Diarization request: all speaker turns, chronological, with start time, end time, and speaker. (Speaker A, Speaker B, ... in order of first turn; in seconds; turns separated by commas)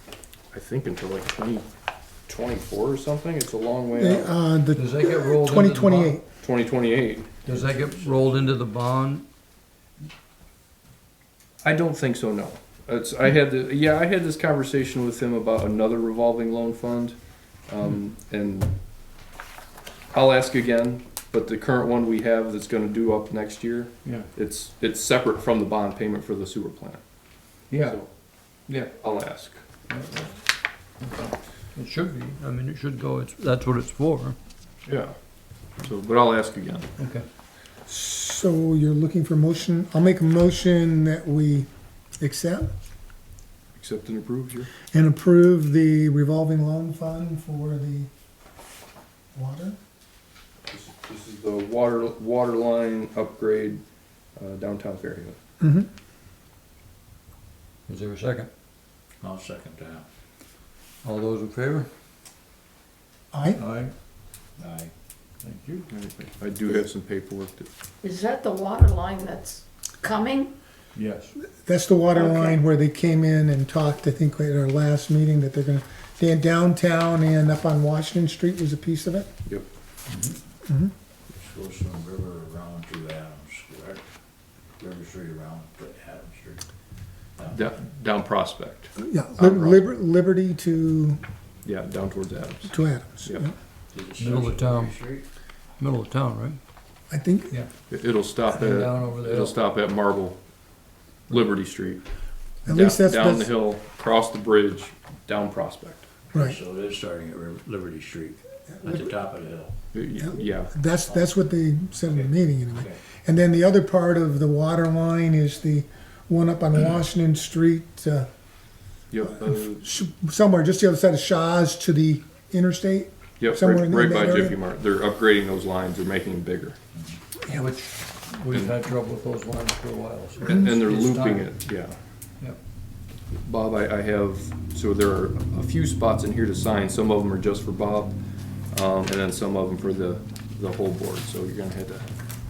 Speaker A: 0.5-1.7, Speaker A: 2.3-4.3, Speaker B: 4.0-6.2, Speaker C: 4.8-6.2, Speaker A: 6.4-7.3, Speaker C: 7.5-9.2, Speaker D: 7.5-8.5, Speaker A: 11.6-18.7, Speaker A: 20.1-27.0, Speaker C: 27.7-28.0, Speaker A: 27.7-28.1, Speaker A: 28.7-29.6, Speaker C: 29.9-30.3, Speaker C: 31.0-34.4, Speaker A: 34.9-35.1, Speaker A: 35.8-36.9, Speaker C: 37.0-37.2, Speaker B: 37.9-41.7, Speaker B: 42.2-42.7, Speaker A: 43.8-44.7, Speaker B: 44.9-48.1, Speaker B: 49.3-49.8, Speaker A: 50.7-53.8, Speaker A: 54.4-55.4, Speaker B: 55.6-55.9, Speaker C: 57.9-58.5, Speaker D: 59.2-60.1, Speaker C: 61.0-61.9, Speaker B: 63.3-63.6, Speaker C: 63.6-63.9, Speaker D: 64.6-64.9, Speaker C: 65.4-65.9, Speaker A: 65.9-67.7, Speaker E: 68.0-70.5, Speaker C: 71.0-71.3, Speaker B: 71.6-79.3, Speaker E: 72.2-72.6, Speaker C: 80.1-80.4, Speaker B: 80.7-80.9, Speaker D: 81.3-84.0, Speaker D: 84.8-86.6, Speaker D: 87.4-87.7, Speaker A: 87.5-89.8, Speaker B: 89.0-91.2, Speaker A: 91.6-93.5, Speaker B: 92.7-93.5, Speaker D: 93.9-95.2, Speaker C: 94.2-95.0, Speaker C: 95.8-96.6, Speaker B: 97.1-97.6, Speaker A: 97.9-100.4, Speaker C: 98.5-99.6, Speaker A: 101.3-102.0, Speaker B: 102.7-103.5, Speaker A: 102.7-106.1, Speaker D: 106.3-109.7, Speaker B: 108.8-109.1, Speaker A: 109.9-110.7, Speaker B: 110.2-118.3, Speaker D: 112.1-113.0, Speaker A: 119.1-119.8, Speaker B: 119.2-124.6, Speaker A: 123.4-126.8, Speaker C: 127.5-131.5, Speaker A: 130.4-132.0, Speaker A: 133.3-138.2, Speaker A: 138.7-142.1